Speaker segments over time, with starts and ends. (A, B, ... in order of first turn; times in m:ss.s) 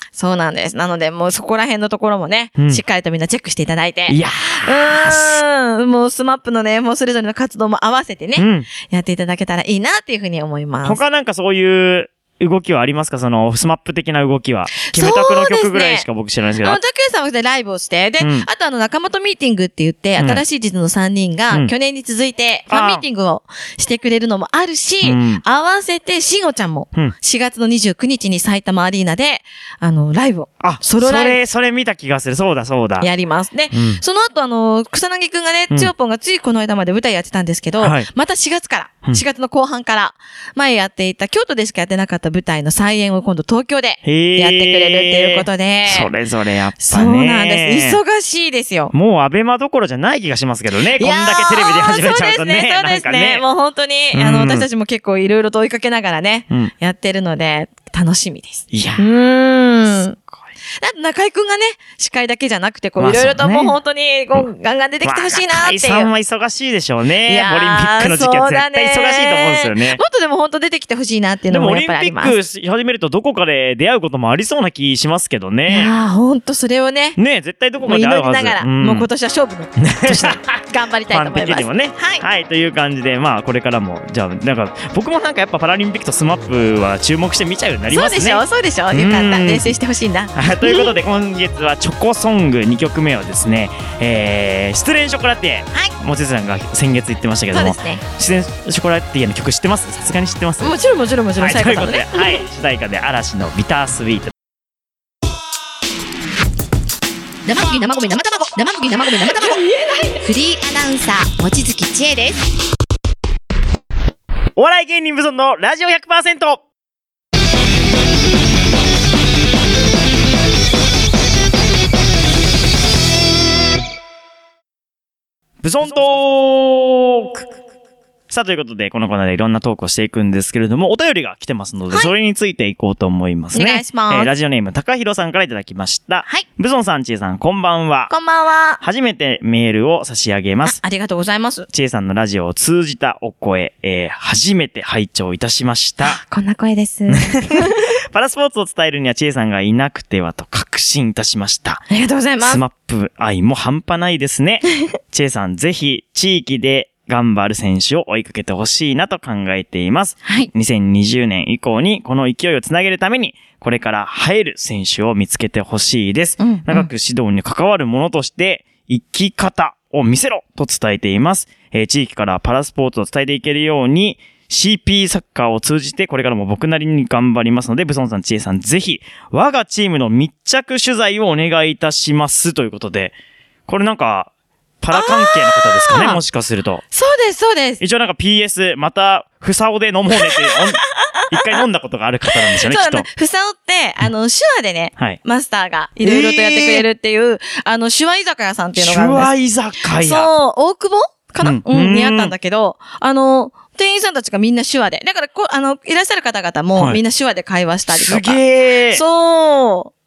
0:00.2-0:11.0 A
0:04.1-0:05.4 B
0:08.4-0:08.7 B
0:10.8-0:16.8 B
0:14.9-0:16.0 A
0:16.6-0:31.4 A
0:18.2-0:18.4 B
0:22.7-0:23.0 B
0:25.0-0:25.4 B
0:30.6-0:33.1 B
0:33.0-0:46.1 A
0:33.7-0:34.0 B
0:37.8-0:38.1 B
0:44.0-0:48.0 B
0:46.8-0:48.9 A
0:48.9-0:53.4 B
0:50.9-1:00.2 A
0:54.1-0:54.7 B
0:58.7-0:59.0 B
1:00.8-1:06.1 A
1:03.0-1:03.8 B
1:05.0-1:10.0 B
1:07.2-1:12.3 A
1:11.5-1:15.9 B
1:15.7-1:17.2 A
1:17.2-1:19.1 B
1:17.8-1:22.2 A
1:19.8-1:29.8 B
1:27.9-1:30.9 A
1:30.3-1:40.7 B
1:37.5-1:38.0 A
1:40.6-1:42.4 A
1:41.4-1:44.3 B
1:47.4-1:49.6 C
1:49.4-1:50.2 A
1:50.2-1:52.4 C
1:54.6-1:56.6 B
2:05.6-2:07.5 B
2:08.3-2:18.1 B
2:13.5-2:14.3 A
2:18.1-2:18.8 A
2:18.8-2:20.8 B
2:20.6-2:21.7 A
2:21.7-2:26.2 B
2:26.0-2:27.9 A
2:27.1-2:31.8 B
2:31.9-2:32.6 A
2:32.4-3:03.1 B
2:40.2-2:40.5 A
2:46.4-2:46.9 A
3:03.7-3:04.3 B
3:04.8-3:06.8 B
3:04.9-3:06.2 A
3:06.9-3:07.8 A
3:07.8-3:13.0 B
3:10.1-3:11.6 A
3:12.3-3:19.3 A
3:16.0-3:16.8 B
3:18.8-3:20.3 B
3:20.0-3:28.4 A
3:21.4-3:22.3 B
3:27.9-3:29.0 B
3:28.9-3:29.9 A